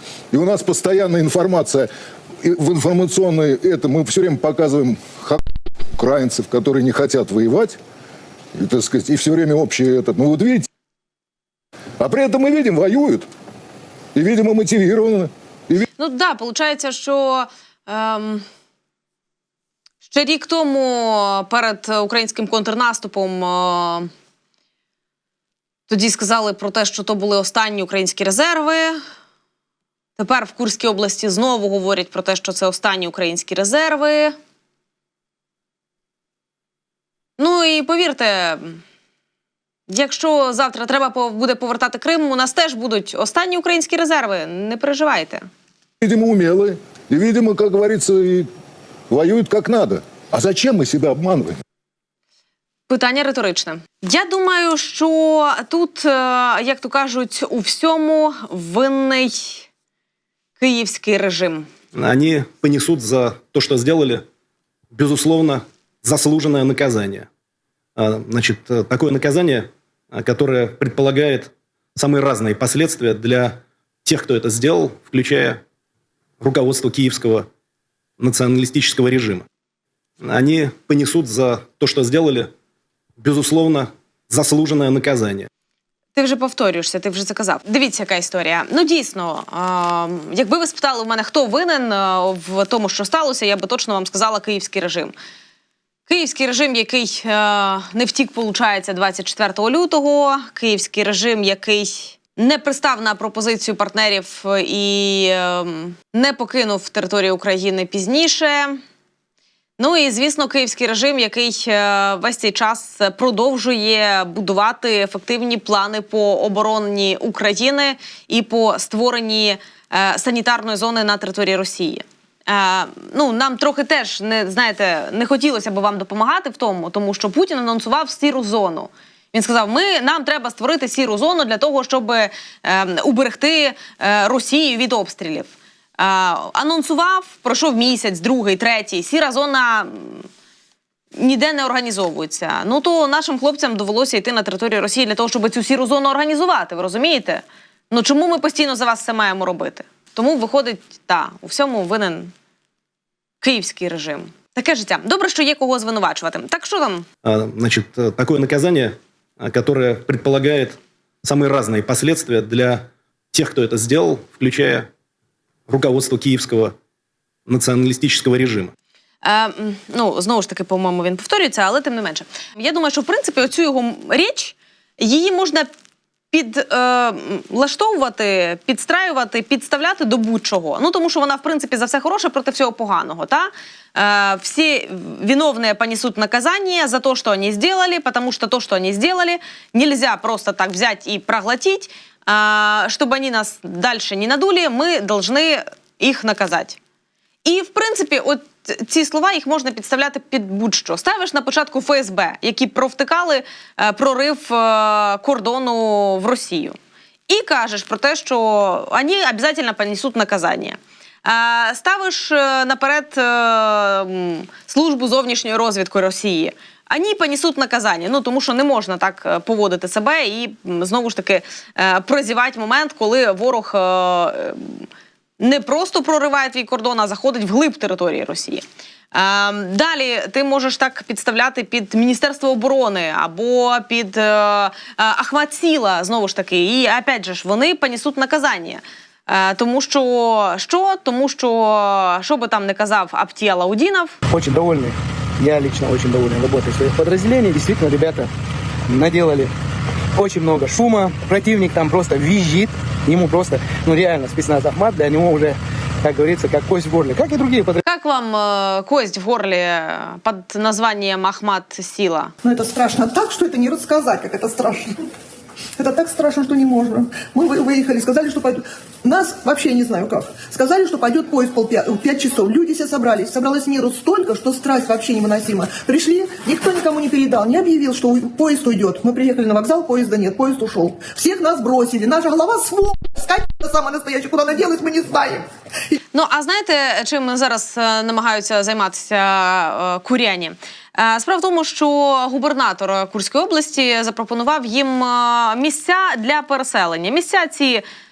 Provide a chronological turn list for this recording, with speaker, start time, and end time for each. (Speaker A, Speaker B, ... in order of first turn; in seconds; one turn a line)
Speaker A: 0.3-1.9
Speaker A: 2.4-5.4
Speaker A: 6.0-7.8
Speaker A: 8.6-10.7
Speaker A: 12.0-13.3
Speaker A: 14.1-15.9
Speaker B: 16.0-18.4
Speaker B: 20.0-24.1
Speaker B: 25.9-29.0
Speaker B: 30.2-34.3
Speaker B: 37.4-38.8
Speaker B: 39.9-45.4
Speaker A: 46.0-48.5
Speaker A: 49.1-51.6
Speaker B: 52.9-59.7
Speaker B: 60.6-61.7
Speaker C: 61.9-64.2
Speaker C: 64.9-67.3
Speaker C: 68.0-75.6
Speaker C: 76.4-77.5
Speaker C: 78.2-79.4
Speaker C: 80.2-82.5
Speaker C: 83.2-85.5
Speaker B: 86.1-95.1
Speaker B: 96.1-108.8
Speaker B: 109.8-140.2
Speaker B: 141.2-152.3
Speaker B: 153.4-157.1
Speaker C: 157.2-164.9
Speaker C: 165.7-166.7
Speaker C: 167.5-168.7
Speaker B: 169.2-175.7
Speaker B: 176.3-196.8
Speaker B: 197.4-206.8
Speaker B: 207.3-224.8
Speaker B: 225.4-244.1
Speaker D: 244.3-248.3
Speaker D: 248.9-249.5
Speaker D: 250.2-257.8
Speaker B: 257.8-262.3
Speaker E: 262.4-265.0
Speaker E: 265.8-285.9
Speaker B: 286.1-297.8